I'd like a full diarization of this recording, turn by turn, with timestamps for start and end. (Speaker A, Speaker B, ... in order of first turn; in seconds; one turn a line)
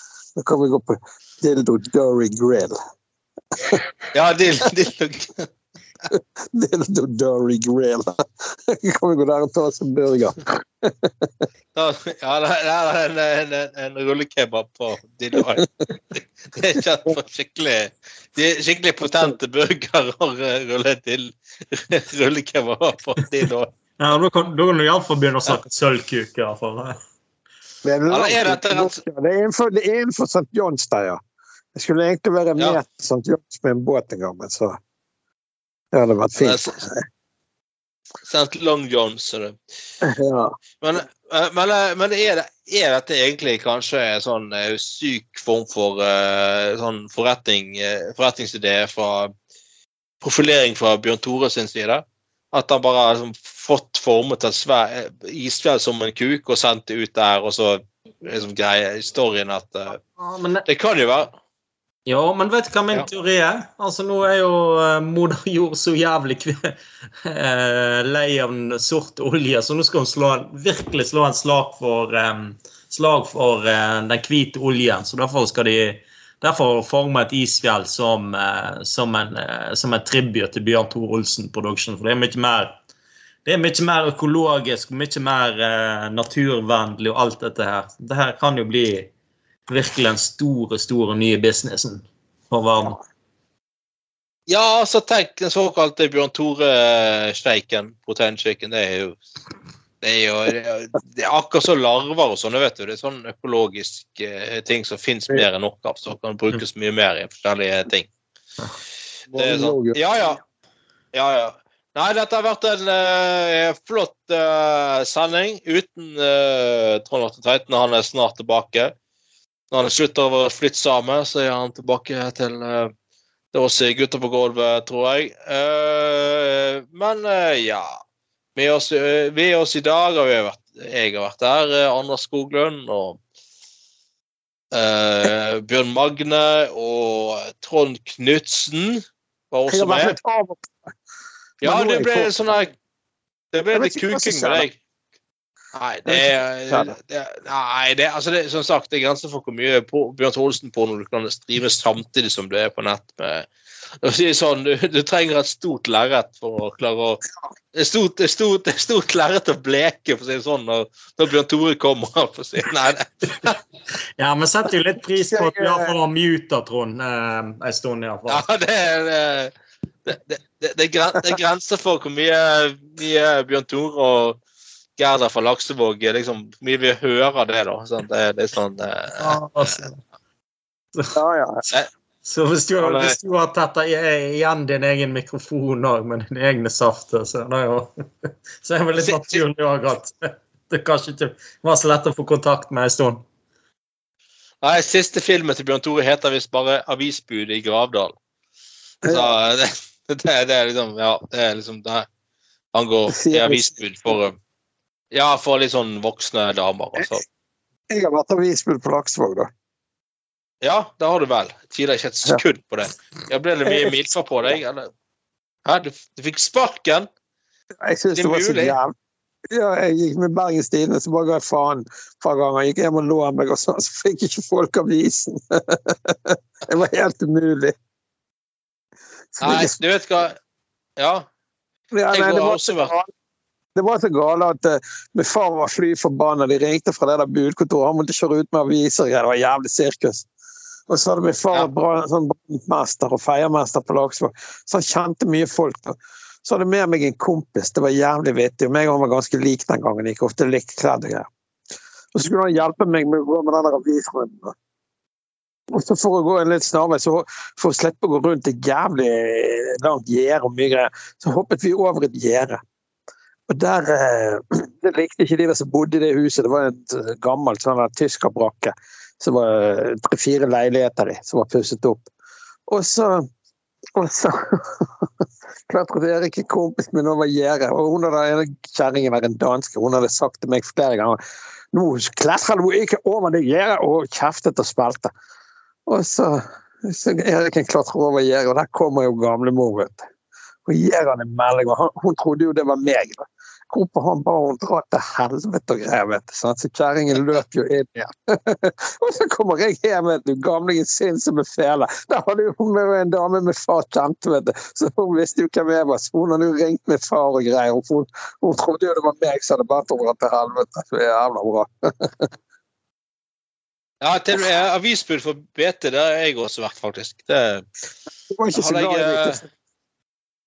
Speaker A: 0.3-2.7
Speaker A: 3.5-3.8
Speaker B: 4.1-5.5
Speaker A: 6.1-11.3
Speaker B: 11.7-23.7
Speaker C: 24.0-27.0
Speaker A: 27.8-31.2
Speaker B: 28.1-29.0
Speaker A: 31.7-34.8
Speaker A: 35.9-37.0
Speaker B: 36.4-36.8
Speaker B: 38.3-39.6
Speaker A: 40.0-40.5
Speaker B: 40.8-49.3
Speaker B: 50.2-60.0
Speaker C: 60.1-60.6
Speaker B: 60.6-61.3
Speaker C: 62.0-82.8
Speaker C: 83.4-89.1
Speaker C: 89.7-93.0
Speaker B: 94.5-99.2
Speaker B: 100.0-108.1
Speaker A: 109.3-110.0
Speaker B: 109.3-110.4
Speaker B: 111.1-118.9
Speaker B: 119.7-122.9
Speaker B: 123.5-127.9
Speaker B: 128.6-133.2
Speaker B: 134.7-140.2
Speaker A: 139.7-140.9
Speaker A: 141.6-142.5
Speaker B: 141.6-142.7
Speaker B: 143.5-144.8
Speaker A: 143.7-144.7
Speaker B: 145.7-153.5
Speaker A: 146.1-146.9
Speaker B: 154.0-157.2
Speaker B: 157.7-163.6
Speaker C: 164.2-168.4
Speaker A: 165.2-165.9
Speaker B: 168.3-169.5
Speaker B: 170.1-174.4
Speaker B: 175.0-179.8
Speaker C: 179.2-180.0
Speaker A: 181.1-181.6
Speaker C: 182.2-193.2
Speaker B: 182.8-183.2
Speaker B: 189.0-189.4
Speaker B: 194.6-198.1
Speaker A: 199.1-199.3
Speaker B: 199.1-202.1
Speaker B: 202.7-204.3
Speaker A: 203.1-204.1
Speaker B: 205.1-207.2
Speaker A: 207.9-209.5
Speaker B: 210.6-214.9
Speaker A: 213.6-214.0
Speaker B: 215.7-217.1
Speaker A: 217.8-218.9
Speaker B: 218.1-218.8
Speaker A: 219.5-227.7
Speaker A: 229.4-229.8
Speaker B: 229.4-230.3
Speaker B: 231.0-231.3
Speaker A: 231.9-233.1
Speaker B: 232.1-232.9
Speaker A: 233.8-240.3
Speaker A: 240.9-251.3
Speaker A: 252.1-254.6
Speaker A: 255.7-262.6
Speaker A: 263.5-272.1
Speaker A: 272.7-273.3
Speaker A: 273.9-275.1
Speaker A: 275.7-281.2
Speaker A: 281.7-285.1
Speaker A: 285.9-290.1
Speaker A: 290.6-312.3
Speaker B: 314.0-317.7
Speaker A: 318.3-319.5
Speaker B: 318.5-319.4